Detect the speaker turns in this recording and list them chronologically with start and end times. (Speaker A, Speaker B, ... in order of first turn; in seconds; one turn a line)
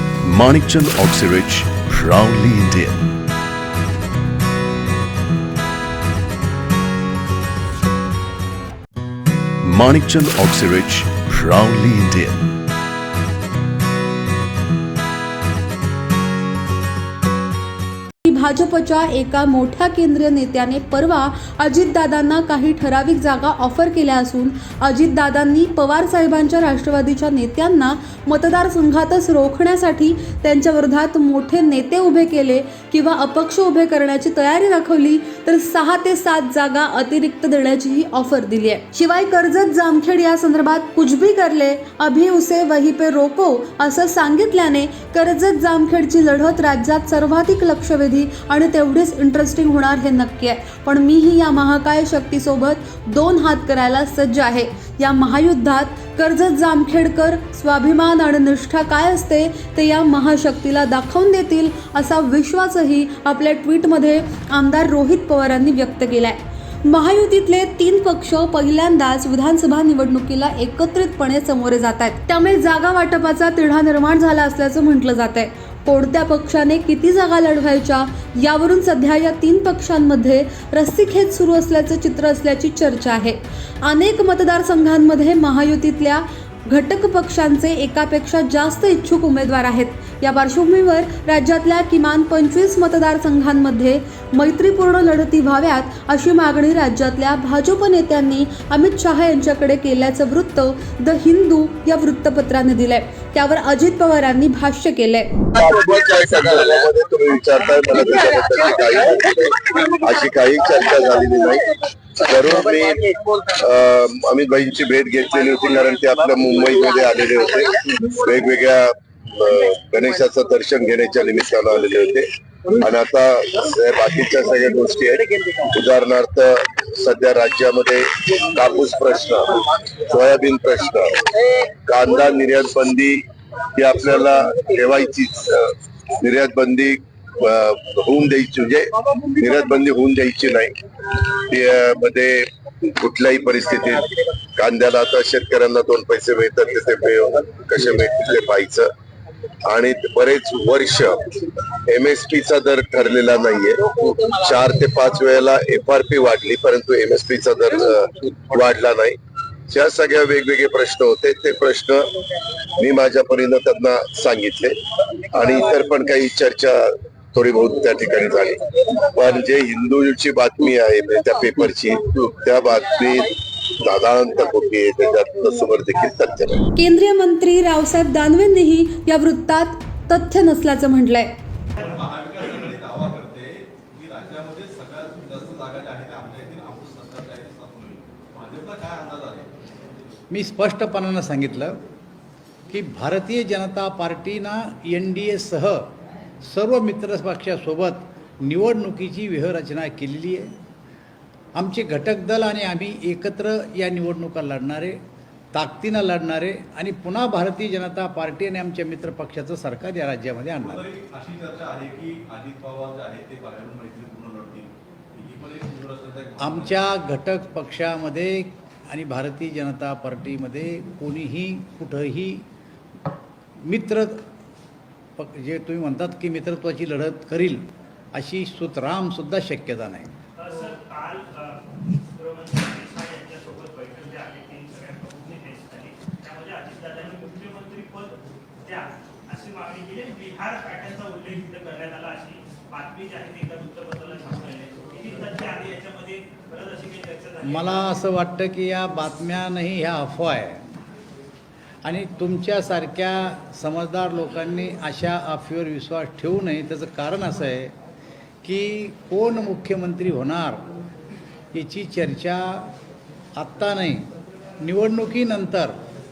Speaker A: 0.2-3.1
Speaker A: 9.6-12.5
Speaker B: 18.2-105.3
Speaker C: 105.6-133.2
Speaker C: 133.7-142.5
Speaker C: 143.0-148.9
Speaker C: 149.7-159.2
Speaker C: 159.7-162.1
Speaker C: 162.7-164.8
Speaker C: 165.3-176.6
Speaker B: 176.8-181.4
Speaker D: 181.8-189.7
Speaker E: 190.3-191.8
Speaker E: 192.7-200.5
Speaker E: 201.6-205.0
Speaker E: 205.5-210.9
Speaker D: 210.6-216.9
Speaker E: 216.4-222.4
Speaker E: 223.6-224.2
Speaker E: 225.2-230.1
Speaker F: 230.4-231.6
Speaker F: 232.1-248.0
Speaker E: 247.4-250.7
Speaker E: 251.8-257.8
Speaker E: 258.4-260.7
Speaker E: 261.5-262.7
Speaker E: 263.4-264.1
Speaker E: 264.6-265.8